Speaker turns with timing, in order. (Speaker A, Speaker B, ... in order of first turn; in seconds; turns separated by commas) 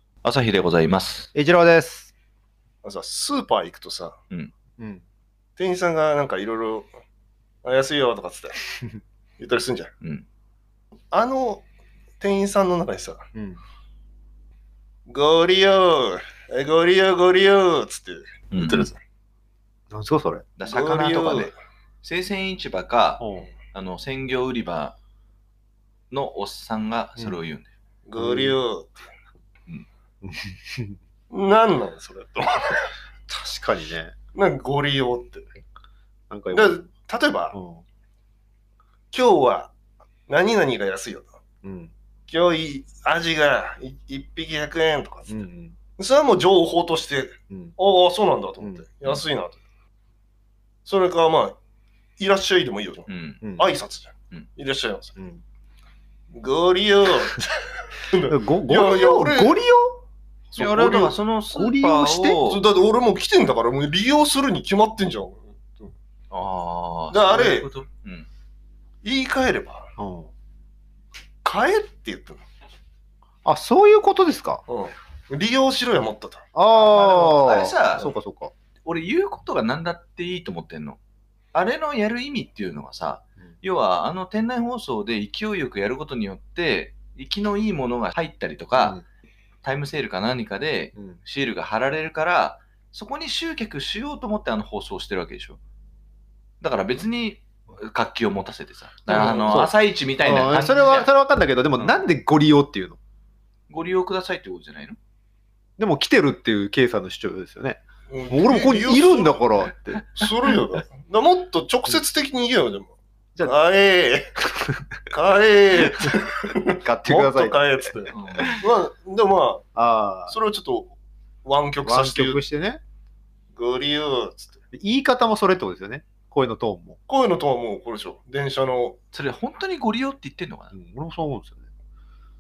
Speaker A: 0.2-1.3, Speaker B: 1.3-2.1, Speaker C: 2.8-4.2, Speaker B: 4.8-5.0, Speaker C: 5.6-6.9, Speaker C: 7.6-8.6, Speaker C: 9.4-9.9, Speaker C: 11.1-11.7, Speaker C: 12.2-13.2, Speaker B: 13.3-13.6, Speaker C: 15.1-19.0, Speaker A: 18.5-18.9, Speaker B: 19.9-20.4, Speaker A: 20.6-24.9, Speaker C: 20.7-21.5, Speaker B: 23.2-23.5, Speaker A: 26.1-27.7, Speaker C: 28.1-28.9, Speaker B: 28.2-28.6, Speaker B: 30.2-31.0, Speaker C: 31.3-32.9, Speaker B: 33.3-34.1, Speaker C: 34.3-35.5, Speaker B: 36.3-36.8, Speaker C: 36.5-37.6, Speaker B: 37.5-37.8, Speaker C: 39.1-39.7, Speaker C: 40.3-41.3, Speaker B: 41.6-41.9, Speaker C: 42.3-49.6, Speaker B: 45.3-45.8, Speaker B: 47.5-47.8, Speaker C: 50.9-51.6, Speaker C: 52.2-55.2, Speaker A: 53.1-53.4, Speaker B: 53.4-53.7, Speaker C: 56.3-57.5, Speaker C: 58.1-59.5, Speaker B: 58.3-60.0, Speaker C: 60.5-61.1, Speaker A: 60.6-62.6, Speaker B: 60.8-62.4, Speaker C: 62.4-65.9, Speaker A: 66.3-68.3, Speaker C: 67.1-67.7, Speaker C: 69.0-69.9, Speaker B: 70.0-70.3, Speaker C: 71.4-72.4, Speaker B: 73.5-74.6, Speaker C: 74.7-77.3, Speaker B: 76.5-78.5, Speaker A: 76.8-78.1, Speaker A: 78.8-81.0, Speaker A: 81.5-89.0, Speaker B: 88.8-89.0, Speaker A: 89.6-95.6, Speaker A: 96.6-101.1, Speaker C: 99.1-99.6, Speaker B: 99.1-103.0, Speaker A: 101.8-102.0, Speaker A: 103.7-105.0, Speaker B: 105.8-110.1, Speaker C: 108.1-109.5, Speaker C: 110.2-112.9, Speaker C: 113.5-114.3, Speaker C: 115.1-119.6, Speaker B: 116.7-118.6, Speaker A: 118.1-118.5, Speaker B: 119.8-120.3, Speaker C: 120.3-122.4, Speaker B: 121.8-122.8, Speaker C: 123.5-124.6, Speaker B: 124.7-127.0, Speaker C: 127.1-129.0, Speaker A: 129.1-130.7, Speaker B: 130.7-131.7